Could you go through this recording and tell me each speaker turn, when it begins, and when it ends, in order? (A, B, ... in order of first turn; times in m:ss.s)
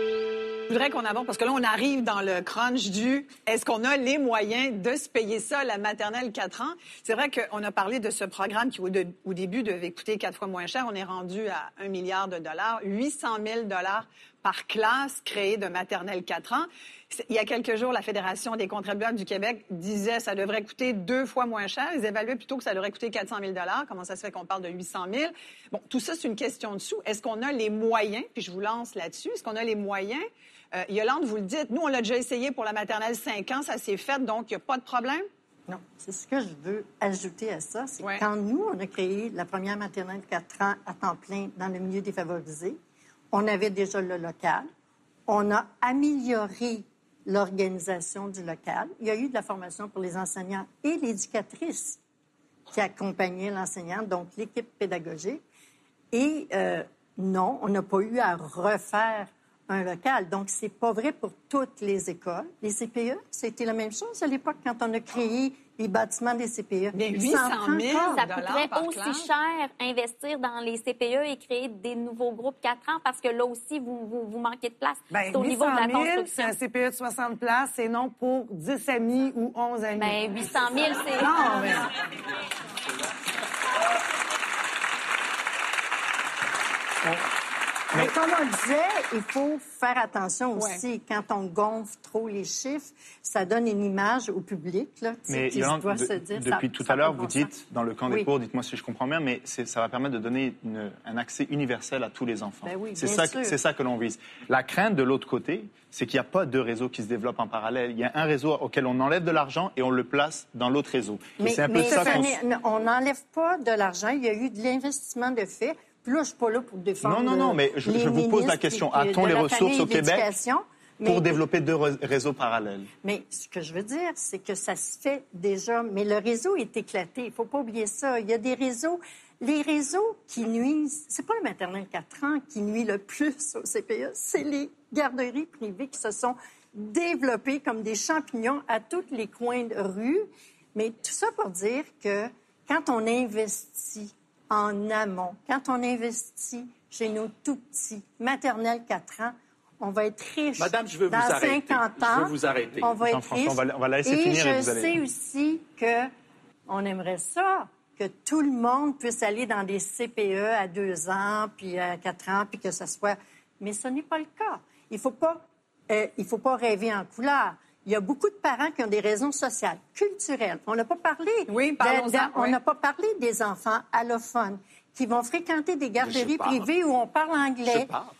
0:00.7-0:35.2 A
0:35.7-0:42.8 B
0:43.3-0:44.7 B
0:45.3-0:52.0 B
0:52.7-0:55.4 B
0:56.1-1:08.2 B
1:06.9-1:09.3 A
1:08.0-1:16.5 C
1:15.1-1:21.9 D
1:20.0-1:21.4 C
1:27.9-1:37.6 B
1:30.6-1:30.8 A
1:35.3-1:52.4 E
1:42.6-1:43.6 B
1:51.4-2:01.4 B
1:51.9-1:52.1 D
1:57.0-2:00.3 E
2:01.0-2:02.9 E
2:03.0-2:36.1 B
2:30.6-2:32.9 F
2:33.0-2:35.0 E
2:36.7-2:57.9 B
2:51.5-2:52.6 A
2:56.0-2:56.7 F
2:57.6-2:58.1 F